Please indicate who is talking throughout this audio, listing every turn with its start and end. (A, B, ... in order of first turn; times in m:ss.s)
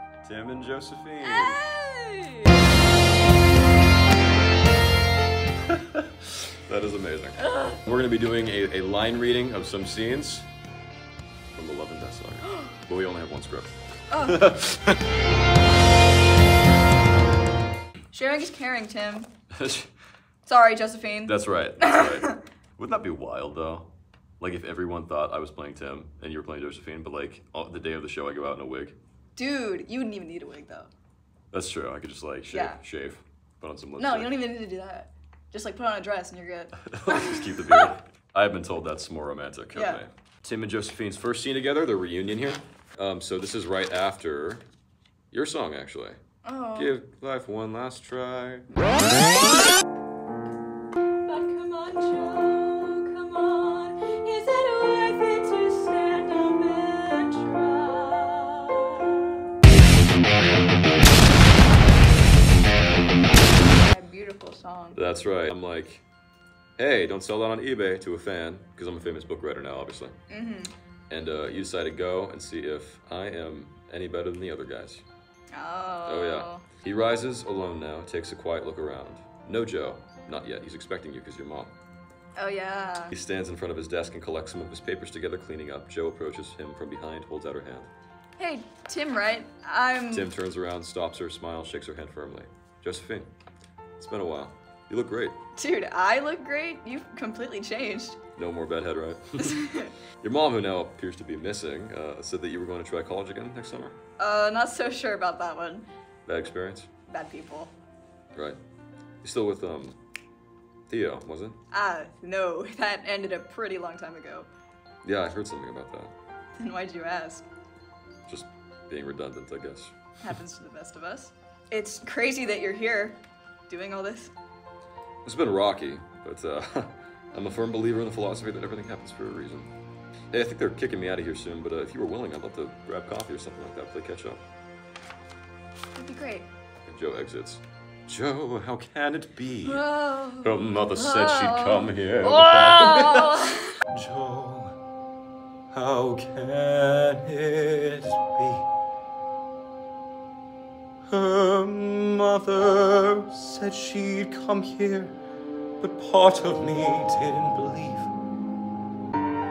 0:00.2-0:01.6 A
0:01.2-0:02.7 B
0:05.7-0:10.5 A
0:07.4-0:07.8 B
0:11.5-0:13.7 A
0:14.1-0:14.5 B
0:14.2-0:15.0 A
0:18.1-0:19.3 B
0:19.5-0:19.9 A
0:20.4-0:22.4 B
0:21.2-0:23.9 A
0:24.4-0:29.0 A
0:29.4-0:30.9 B
0:31.5-0:34.4 A
0:32.5-0:32.8 B
0:34.0-0:37.9 B
0:36.8-0:44.6 A
0:39.7-0:40.0 B
0:45.3-0:46.2 A
0:46.4-0:46.9 B
0:46.8-0:48.7 A
0:48.7-0:49.4 B
0:51.2-0:59.4 B
1:03.6-1:05.0 B
1:04.9-1:06.0 A
1:06.8-1:10.1 A
1:10.3-1:10.7 B
1:11.1-1:15.0 A
1:15.5-1:16.6 B
1:16.0-1:21.7 A
1:22.4-1:23.1 B
1:23.1-1:27.9 A
1:28.4-1:30.3 B
1:30.1-1:33.3 A
1:34.0-1:35.4 A
1:35.6-1:38.2 B
1:38.4-1:39.6 A
1:39.4-1:39.9 B
1:40.2-1:44.0 A
1:44.2-1:45.8 B
1:46.2-1:46.9 A
1:47.1-1:47.7 B
1:49.2-1:50.0 A
1:50.9-1:51.6 A
1:51.7-1:54.5 B
1:55.0-1:56.1 A
1:56.6-1:57.4 B
1:58.3-1:59.9 A
2:00.2-2:03.2 B
2:03.7-2:04.3 B
2:05.2-2:09.7 A
2:10.3-2:14.4 A
2:16.0-2:16.5 B
2:16.8-2:19.8 A
2:19.6-2:23.8 B
2:20.4-2:24.8 A
2:25.7-2:28.6 A
2:31.1-2:35.2 A
2:35.8-2:38.1 A